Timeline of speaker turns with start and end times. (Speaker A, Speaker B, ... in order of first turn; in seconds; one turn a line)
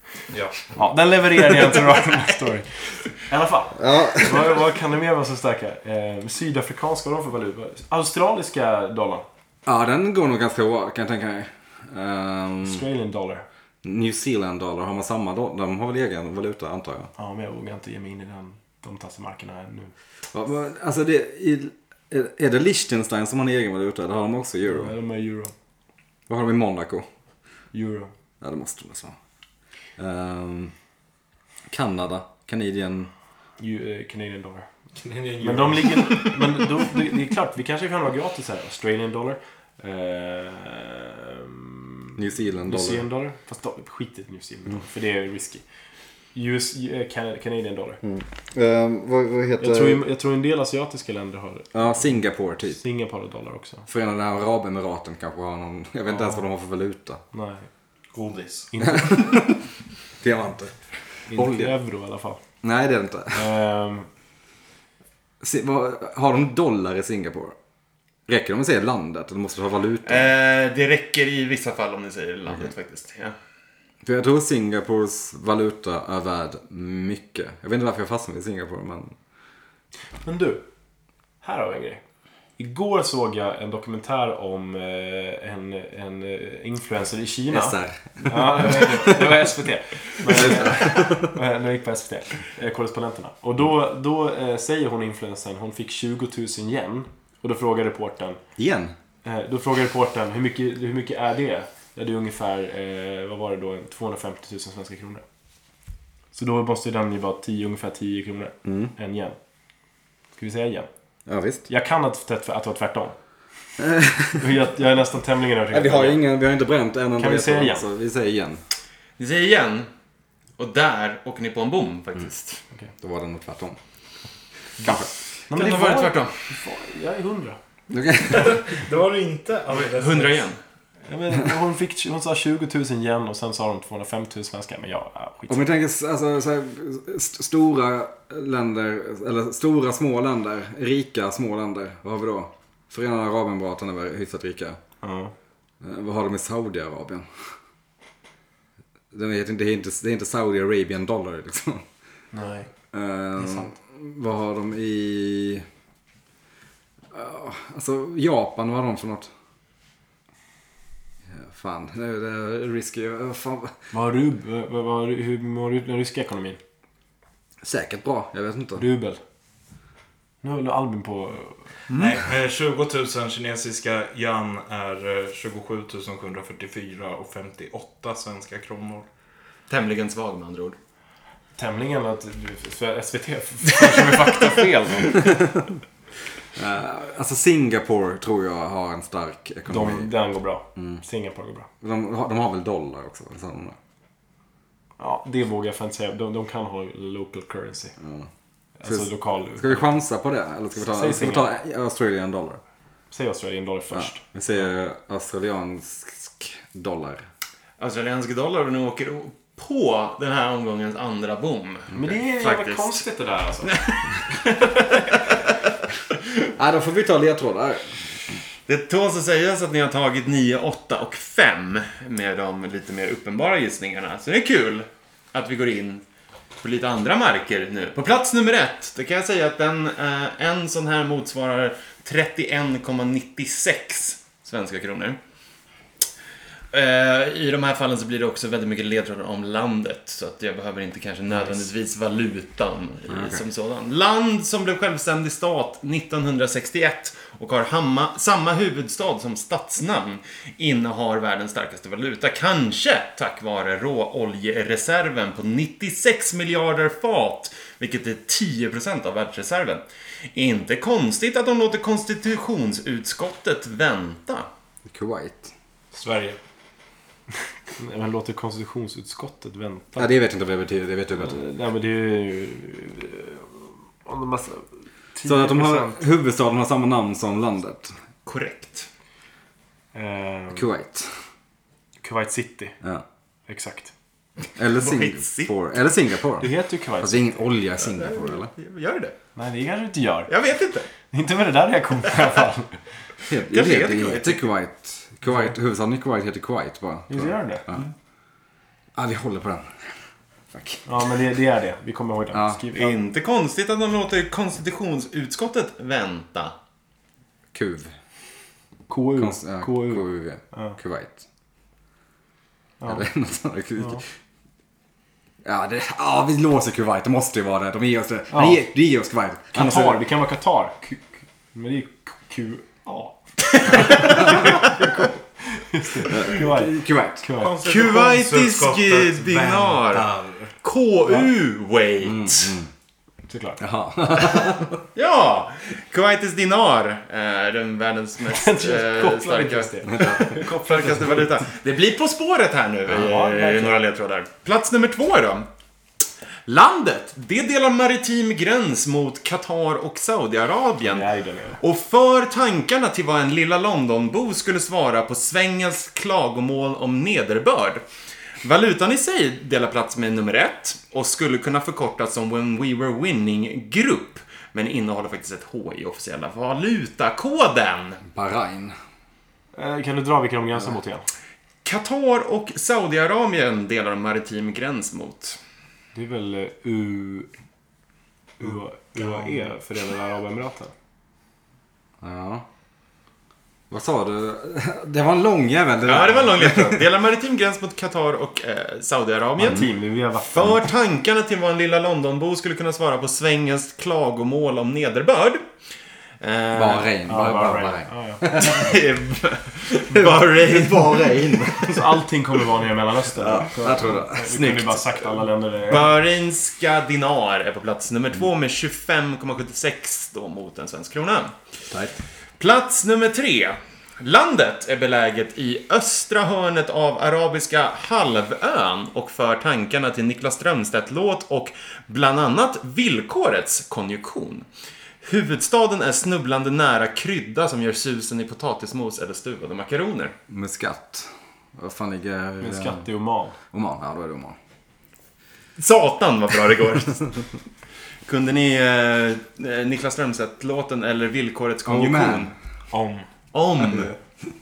Speaker A: 0.3-0.7
Speaker B: 0.7-9.2
Speaker C: 3.8-4.6
Speaker C: 9.7-12.8
Speaker B: 12.6-13.4
Speaker C: 13.8-17.1
Speaker B: 17.2-19.9
Speaker C: 20.3-24.9
Speaker B: 24.6-25.5
Speaker C: 26.3-27.1
Speaker B: 27.7-28.1
Speaker C: 28.4-29.1
Speaker C: 30.0-30.7
Speaker C: 31.7-33.1
Speaker B: 33.6-34.7
Speaker A: 35.0-36.3
Speaker B: 35.4-45.6
Speaker C: 42.2-43.0
Speaker B: 46.3-48.0
Speaker C: 48.0-50.0
Speaker B: 49.6-52.1
Speaker C: 51.7-52.8
Speaker B: 52.7-53.8
Speaker C: 53.9-57.2
Speaker B: 56.1-56.5
Speaker B: 57.3-57.7
Speaker A: 58.1-58.7
Speaker B: 58.7-59.3
Speaker C: 58.8-59.6
Speaker C: 60.2-60.7
Speaker C: 61.2-61.7
Speaker B: 61.3-62.4
Speaker C: 62.6-63.5
Speaker B: 63.3-64.1
Speaker C: 65.4-67.5
Speaker C: 68.3-70.3
Speaker D: 70.0-73.3
Speaker C: 74.0-79.1
Speaker B: 80.2-80.6
Speaker B: 81.4-82.0
Speaker B: 82.6-98.4
Speaker C: 87.5-89.5
Speaker C: 90.2-91.3
Speaker C: 98.6-98.9
Speaker B: 99.2-105.2
Speaker B: 106.3-109.4
Speaker C: 108.6-108.9
Speaker B: 110.3-110.9
Speaker C: 111.3-111.7
Speaker B: 111.7-113.2
Speaker C: 113.8-114.5
Speaker B: 114.4-116.2
Speaker C: 115.7-118.6
Speaker B: 117.2-117.8
Speaker D: 119.2-119.9
Speaker D: 120.6-122.6
Speaker C: 123.0-123.8
Speaker C: 124.8-125.1
Speaker B: 125.5-127.6
Speaker D: 125.5-126.3
Speaker C: 127.9-128.6
Speaker A: 128.3-130.4
Speaker D: 129.7-130.6
Speaker B: 131.1-135.6
Speaker C: 135.5-144.8
Speaker B: 145.0-145.3
Speaker C: 145.8-147.4
Speaker C: 149.1-151.8
Speaker B: 152.3-152.7
Speaker C: 152.9-155.6
Speaker B: 153.4-153.7
Speaker C: 157.1-159.3
Speaker C: 161.3-163.7
Speaker B: 163.9-166.6
Speaker C: 167.6-168.8
Speaker B: 168.8-169.2
Speaker B: 170.4-171.6
Speaker D: 171.9-172.2
Speaker A: 171.9-179.1
Speaker D: 179.7-180.8
Speaker B: 181.6-185.5
Speaker C: 185.2-185.6
Speaker C: 186.5-190.1
Speaker B: 189.7-191.7
Speaker C: 190.8-191.0
Speaker C: 191.8-193.8
Speaker B: 195.0-197.9
Speaker C: 198.0-198.3
Speaker B: 198.8-199.9
Speaker C: 198.8-202.6
Speaker B: 200.8-201.4
Speaker B: 203.1-204.2
Speaker C: 203.9-207.2
Speaker D: 207.8-213.1
Speaker B: 211.9-213.8
Speaker D: 213.6-215.4
Speaker C: 216.5-217.9
Speaker D: 218.7-226.0
Speaker D: 226.6-235.2
Speaker D: 236.7-264.5
Speaker C: 243.1-243.4
Speaker C: 264.9-265.5
Speaker A: 265.9-266.4
Speaker B: 267.8-270.1
Speaker C: 270.0-271.4
Speaker B: 271.2-276.0
Speaker C: 275.2-277.9
Speaker D: 278.2-278.9
Speaker B: 279.9-280.7
Speaker C: 280.5-281.1
Speaker B: 282.0-282.8
Speaker B: 283.5-283.9
Speaker C: 284.6-288.5
Speaker D: 284.7-285.5
Speaker B: 286.4-287.4
Speaker D: 287.8-289.1
Speaker B: 289.4-290.3
Speaker D: 290.3-290.9
Speaker B: 291.0-292.8
Speaker C: 293.3-297.8
Speaker D: 293.4-294.5
Speaker B: 297.1-297.6
Speaker C: 298.9-299.8
Speaker C: 300.5-300.8
Speaker B: 300.9-303.0
Speaker C: 302.3-302.6
Speaker D: 302.7-306.5
Speaker C: 307.5-307.9
Speaker B: 308.9-310.8
Speaker C: 309.1-311.2
Speaker B: 312.8-313.1
Speaker C: 312.8-314.0
Speaker C: 315.4-320.0
Speaker B: 318.3-318.6
Speaker B: 319.5-327.6
Speaker C: 326.0-327.2
Speaker A: 327.4-330.5
Speaker D: 327.6-330.1
Speaker D: 330.6-332.6
Speaker C: 332.0-332.7
Speaker B: 333.3-333.6
Speaker C: 333.6-334.8
Speaker D: 334.9-345.5
Speaker B: 338.2-341.4
Speaker C: 339.8-340.4
Speaker B: 342.9-343.8
Speaker D: 346.5-351.1
Speaker B: 350.8-351.6
Speaker D: 351.6-357.8
Speaker D: 358.4-368.0
Speaker C: 368.1-368.7
Speaker B: 369.5-371.1
Speaker D: 371.6-375.4
Speaker B: 375.9-377.3
Speaker B: 378.4-380.7
Speaker A: 378.4-379.5
Speaker C: 382.0-382.4
Speaker C: 383.7-386.8
Speaker D: 385.9-389.7
Speaker B: 389.4-390.6
Speaker D: 390.2-395.4
Speaker D: 396.2-396.9
Speaker C: 396.5-398.7
Speaker B: 397.1-398.2
Speaker D: 398.3-401.5
Speaker C: 399.9-401.9
Speaker B: 401.7-405.9
Speaker C: 403.1-405.1
Speaker D: 405.7-411.3
Speaker D: 412.4-424.5
Speaker D: 425.0-430.1
Speaker C: 430.3-432.8
Speaker B: 432.4-433.4
Speaker C: 433.5-434.4
Speaker D: 435.6-437.1
Speaker D: 438.1-442.3
Speaker C: 441.6-442.3
Speaker A: 442.7-443.1
Speaker D: 443.3-443.9